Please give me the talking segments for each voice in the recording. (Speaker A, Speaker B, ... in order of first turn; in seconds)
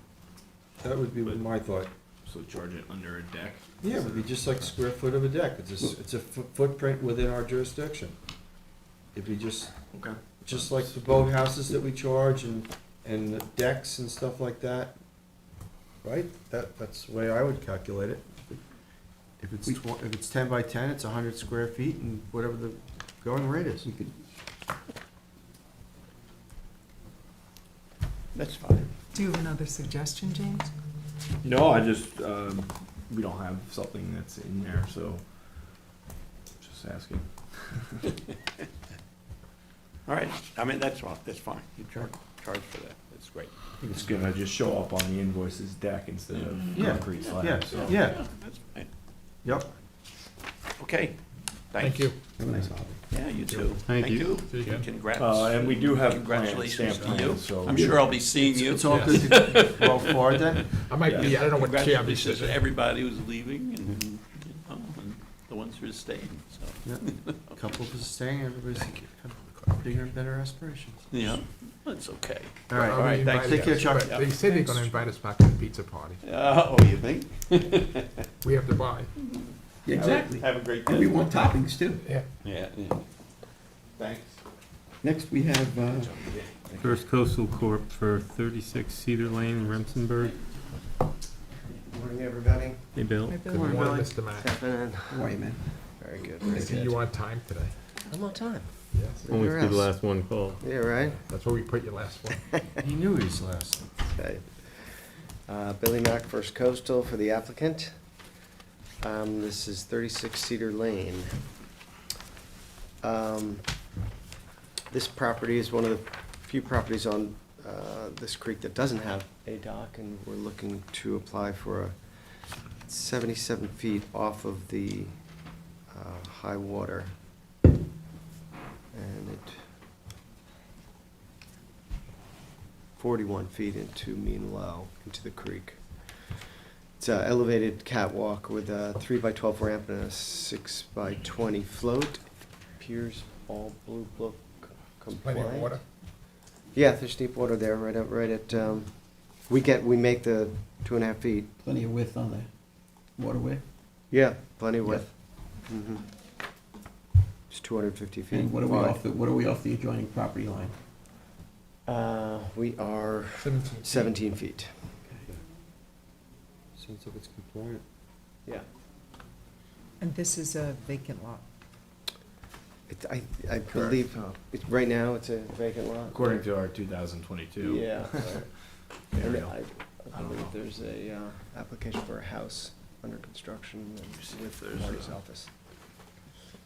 Speaker A: 0.8-1.9, 3.8-8.2, 9.1-9.7, 10.4-14.9, 16.0-18.4, 19.4-23.9, 46.7-48.3, 49.4-49.7, 58.4-60.8, 66.8-71.1, 72.7-74.2, 102.8-103.9, 166.7-167.8
Speaker B: 2.2-4.3, 10.0-10.8, 31.4-35.2, 36.6-37.2, 43.8-48.0, 55.1-57.9, 61.0-61.3, 79.9-81.1, 84.0-84.3, 86.0-86.9, 176.1-178.4, 179.1-179.5, 180.1-180.6, 184.1-185.2
Speaker C: 23.8-24.2, 52.4-53.0, 57.7-58.0, 79.8-82.0, 85.0-86.1, 95.1-95.8, 151.6-152.5, 153.2-153.6, 158.3-160.7
Speaker D: 28.3-28.9, 40.1-44.1, 47.9-48.9, 50.8-51.1, 51.7-52.1, 53.1-60.2, 61.1-67.5, 71.1-74.2, 76.2-78.2, 80.1-80.4, 82.4-83.0
Speaker E: 29.1-30.7, 93.2-93.9, 170.0-171.4
Speaker F: 51.8-52.2, 53.4-53.9, 54.4-54.8, 58.9-59.3, 60.8-62.6, 72.8-76.2, 78.4-79.1, 93.5-94.5, 96.4-97.7, 98.9-99.3, 101.0-102.4, 145.2-145.8, 163.4-164.2
Speaker G: 53.8-54.4, 86.8-90.3, 92.9-93.5, 99.3-100.6
Speaker H: 91.8-92.9, 93.5-96.9, 98.0-99.9, 100.6-101.2, 104.1-107.9, 109.0-111.3, 113.0-113.7, 114.9-125.1, 125.9-127.1, 128.9-129.7, 133.0-145.8, 146.7-151.5, 154.1-156.1, 157.5-159.0, 161.8-164.7, 172.9-176.4, 177.6-178.5, 179.1-185.5